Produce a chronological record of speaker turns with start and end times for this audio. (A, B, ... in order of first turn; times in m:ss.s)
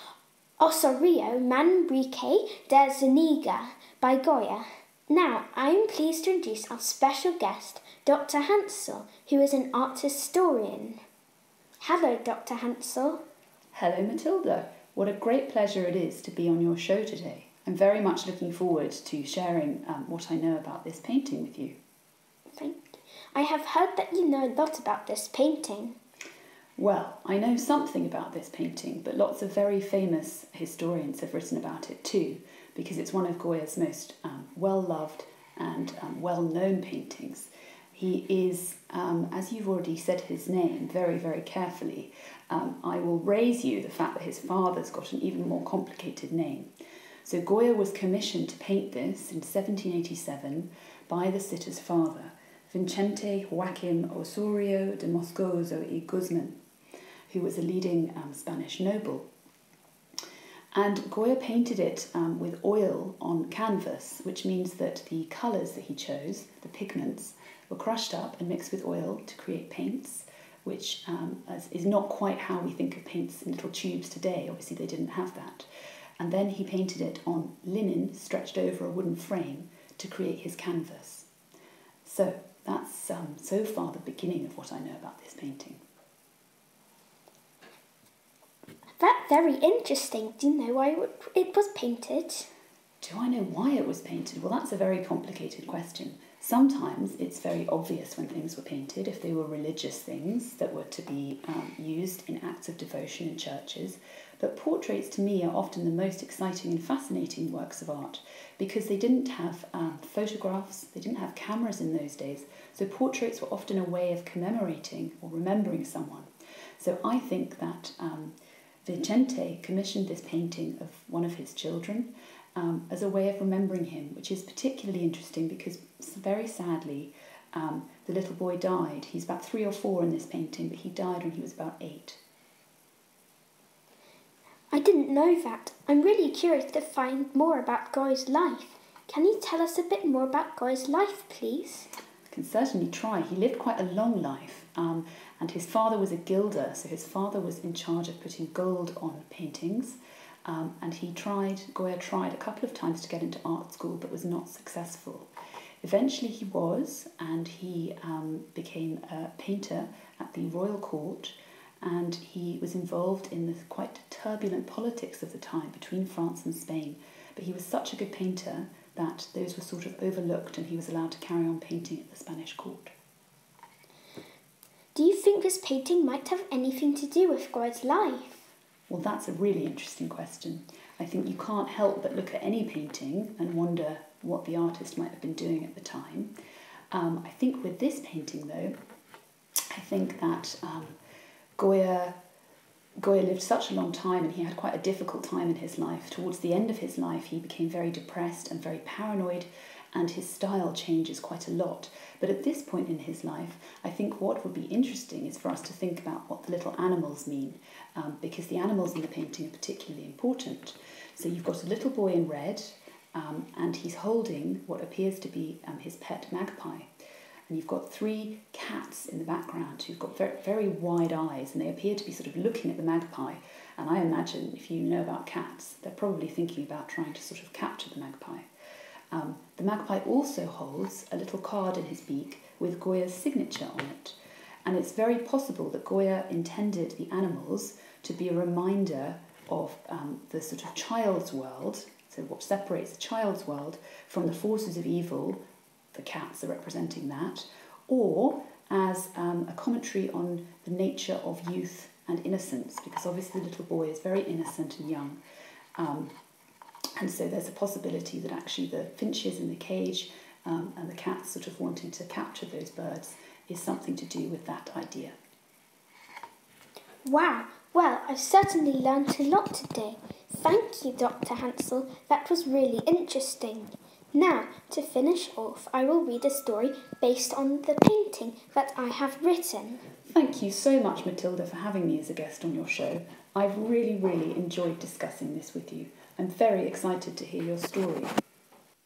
0:00.6-0:11.0 A
0:11.8-0:13.2 A
0:13.7-0:21.8 B
0:22.6-0:26.0 A
0:26.8-0:46.7 B
0:47.2-0:56.6 B
0:57.3-0:59.3 B
1:00.7-1:15.7 B
1:16.2-1:21.3 B
1:22.0-1:25.8 B
1:29.0-1:32.5 A
1:33.0-2:12.2 B
2:14.7-2:21.9 A
2:22.3-2:35.3 B
2:35.8-2:52.9 B
2:55.0-2:58.4 A
2:58.9-3:06.3 B
3:06.9-3:08.8 B
3:09.7-3:11.0 B
3:11.6-3:12.2 B
3:13.0-3:36.9 B
3:37.5-3:48.5 B
3:49.1-4:05.4 B
4:05.9-4:15.2 B
4:15.8-4:16.2 B
4:17.0-4:25.2 B
4:27.0-4:39.8 A
4:40.0-4:48.2 B